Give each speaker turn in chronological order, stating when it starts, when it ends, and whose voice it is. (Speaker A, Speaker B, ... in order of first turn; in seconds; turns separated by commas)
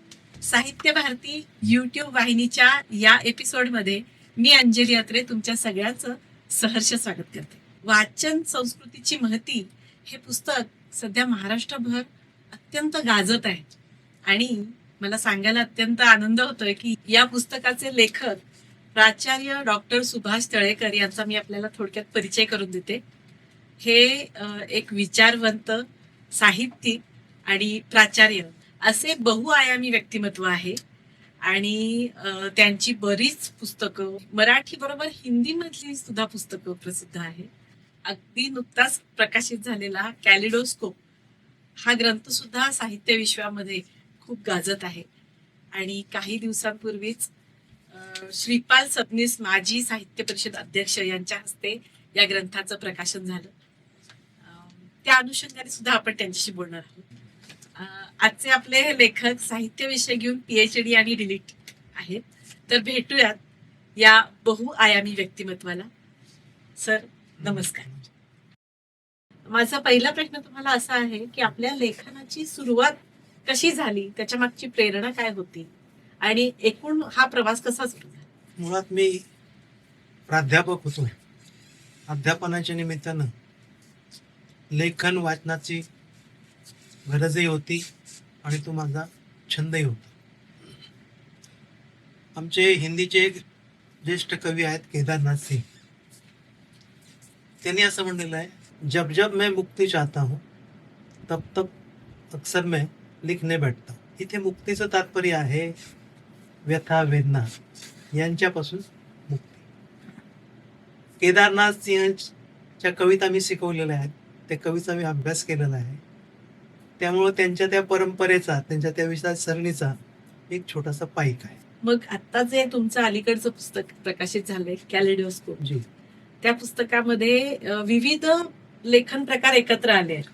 Speaker A: 0.4-13.7, Speaker A: 14.3-18.4, Speaker A: 18.9-23.0, Speaker A: 23.8-30.8, Speaker A: 31.4-37.5, Speaker A: 38.1-41.0, Speaker A: 41.9-45.1, Speaker A: 45.7-47.3, Speaker A: 47.9-53.5, Speaker A: 54.4-57.1, Speaker A: 57.8-63.4, Speaker A: 64.0-65.9, Speaker A: 66.8-67.9, Speaker B: 67.4-68.1, Speaker A: 69.5-75.7, Speaker A: 76.2-78.3, Speaker B: 78.6-79.2, Speaker B: 80.3-81.1, Speaker B: 82.1-83.3, Speaker B: 84.7-85.9, Speaker B: 87.1-87.8, Speaker B: 88.4-90.1, Speaker B: 92.4-93.4, Speaker B: 94.0-95.7, Speaker B: 97.6-100.4, Speaker B: 101.3-101.7, Speaker B: 102.3-105.8, Speaker B: 106.7-107.5, Speaker B: 108.1-109.6, Speaker B: 111.2-116.0, Speaker B: 117.0-120.0, Speaker B: 120.5-121.6, Speaker A: 121.8-125.6, Speaker B: 125.6-125.8, Speaker A: 126.4-130.3